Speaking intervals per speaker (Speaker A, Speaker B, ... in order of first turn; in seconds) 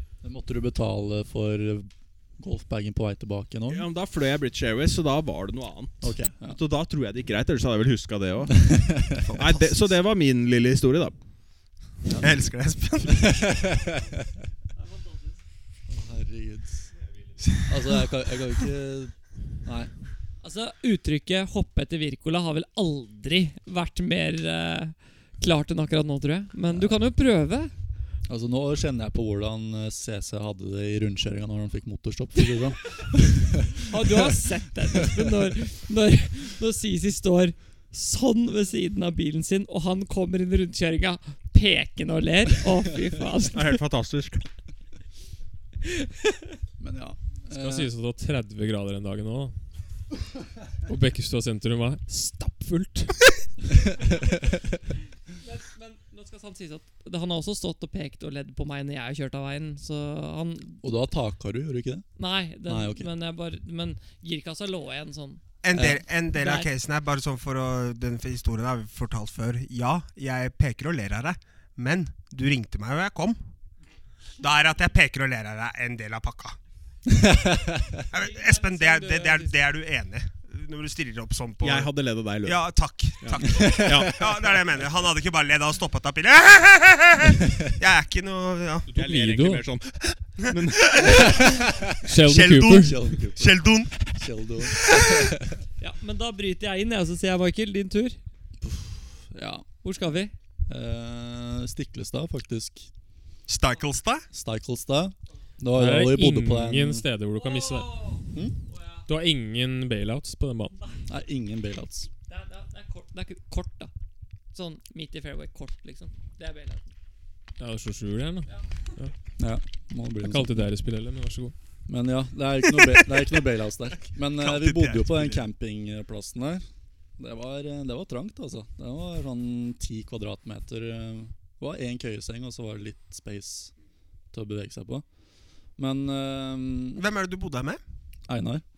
Speaker A: 0.2-3.9, 6.0-6.6, 8.5-9.2, 13.1-14.3, 15.9-16.9, 17.7-19.9, 26.7-26.9, 28.3-34.4, 46.8-47.9, 54.0-54.5, 60.8-62.0, 62.6-63.1, 65.7-66.0, 77.1-77.9, 83.5-84.1, 91.0-92.0, 92.7-95.6, 98.6-99.6, 100.7-102.9, 104.3-107.0, 111.1-112.1, 119.4-120.7, 121.9-126.6, 127.2-133.7, 134.3-135.0, 135.8-137.0, 138.3-138.6
Speaker B: 3.7-11.2, 43.5-44.5, 81.6-82.6, 83.2-84.5, 88.9-91.4
Speaker C: 9.2-9.9, 12.2-13.5, 65.6-73.4, 74.4-76.6, 78.1-88.9, 90.5-91.5, 92.2-95.3, 103.5-104.2, 124.4-125.4, 136.9-137.8
Speaker D: 14.8-15.4, 20.4-27.7, 33.8-43.8, 45.8-46.5, 55.4-60.8, 62.2-65.4, 66.3-66.7, 78.1-79.5, 95.8-98.2, 99.8-100.3, 107.4-109.0, 112.3-113.9, 114.5-116.9
Speaker E: 47.5-49.5, 50.9-53.2, 88.9-89.7, 92.0-93.1, 105.7-108.0, 109.1-110.8, 117.6-119.1, 120.2-121.5